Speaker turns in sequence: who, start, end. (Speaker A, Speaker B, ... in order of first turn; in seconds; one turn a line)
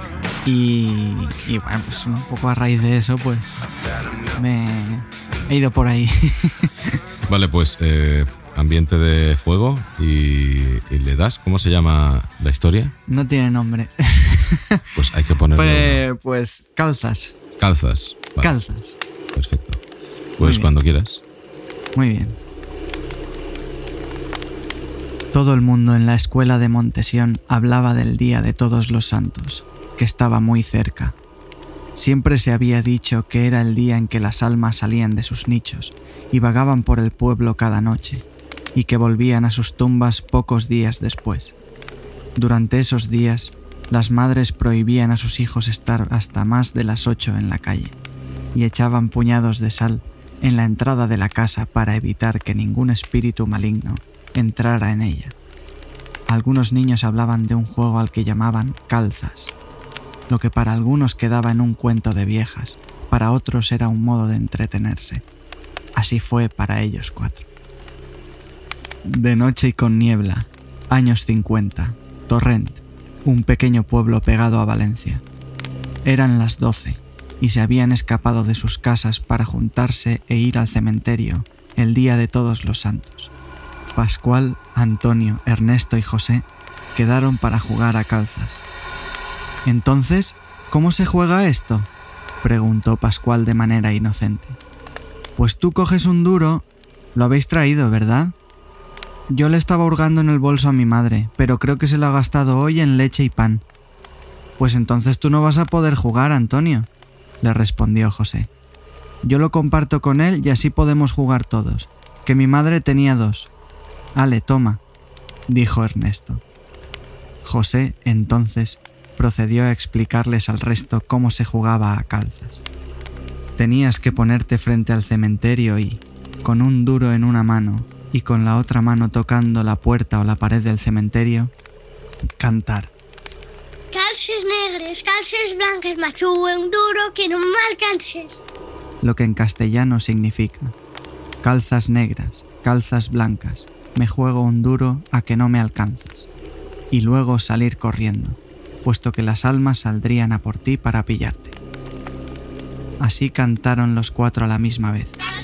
Speaker A: 0.5-3.6
Speaker A: 4.4-6.9
Speaker B: 7.3-12.9
Speaker A: 13.1-14.8
Speaker B: 14.9-16.0
Speaker A: 15.5-17.3
Speaker B: 17.6-18.5
Speaker A: 18.4-18.9
Speaker B: 19.3-19.8
Speaker A: 20.4-20.7
Speaker B: 20.4-21.2
Speaker A: 21.9-22.4
Speaker A: 25.3-31.1
Speaker A: 31.9-38.2
Speaker A: 38.7-41.5
Speaker A: 42.4-48.0
Speaker A: 48.5-55.3
Speaker A: 56.3-59.5
Speaker A: 60.3-65.2
Speaker A: 66.0-67.5
Speaker A: 69.0-75.2
Speaker A: 76.0-83.3
Speaker A: 84.0-88.6
Speaker A: 89.6-91.9
Speaker A: 92.4-94.6
Speaker A: 95.4-98.3
Speaker A: 99.3-103.6
Speaker A: 104.6-106.9
Speaker A: 107.4-108.5
Speaker A: 109.2-113.5
Speaker A: 114.2-114.8
Speaker A: 115.5-116.4
Speaker A: 117.4-122.6
Speaker A: 123.6-131.5
Speaker A: 132.4-132.9
Speaker C: 133.9-138.4
Speaker A: 139.0-140.7
Speaker A: 141.4-146.3
Speaker A: 146.9-151.6
Speaker A: 153.0-155.2